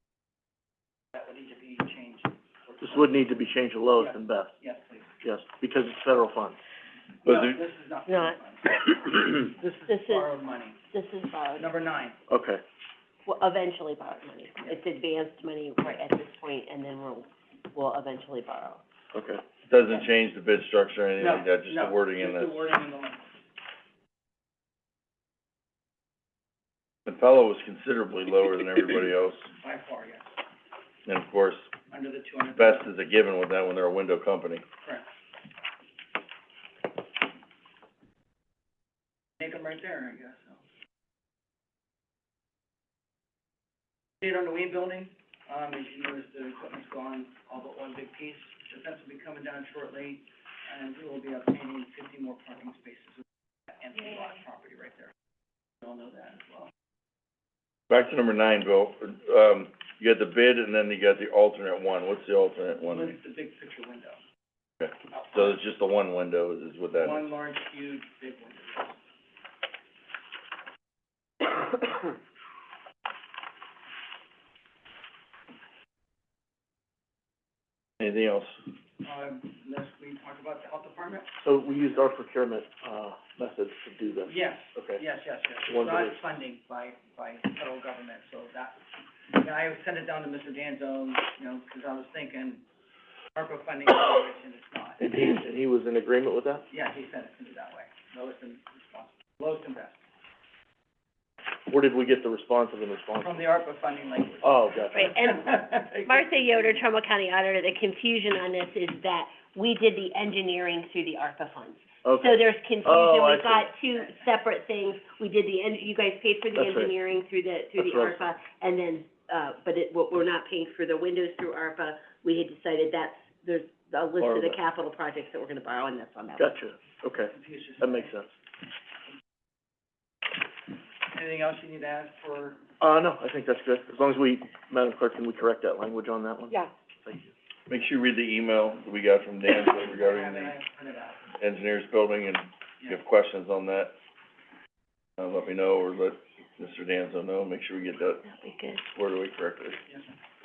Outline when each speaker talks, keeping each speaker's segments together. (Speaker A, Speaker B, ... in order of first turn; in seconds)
Speaker A: 1.1-3.4, 4.0-5.1, 7.2-10.8, 11.6-12.2, 21.2-23.3, 29.5-30.3, 31.9-32.8, 34.8-35.1, 39.4-40.6, 44.2-53.2, 53.8-55.1, 55.8-56.7, 62.9-64.2, 66.9-69.0, 79.0-81.3, 84.2-88.8, 89.3-92.6, 93.3-95.0, 96.7-100.0, 103.2-106.7, 127.3-128.1, 131.1-132.6, 139.9-141.2, 149.9-150.1
Speaker B: 2.8-4.5, 5.2-6.6, 12.3-12.6, 19.1-19.4, 81.4-85.0, 85.7-86.2, 95.0-96.7, 101.7-103.4, 104.4-105.1, 112.0-113.7, 116.5-116.9, 117.8-118.2, 124.2-124.6, 126.4-128.3, 132.8-137.3
Speaker C: 7.2-7.6, 19.7-22.6, 27.1-29.5, 31.1-31.7, 32.5-34.6, 57.9-63.1, 64.8-67.3, 78.0-78.5, 137.7-140.6, 141.4-143.9, 145.2-148.2, 148.8-149.8
Speaker D: 8.1-8.4, 9.8-10.3, 10.9-11.7, 13.2-18.8, 104.9-126.6, 148.3-148.8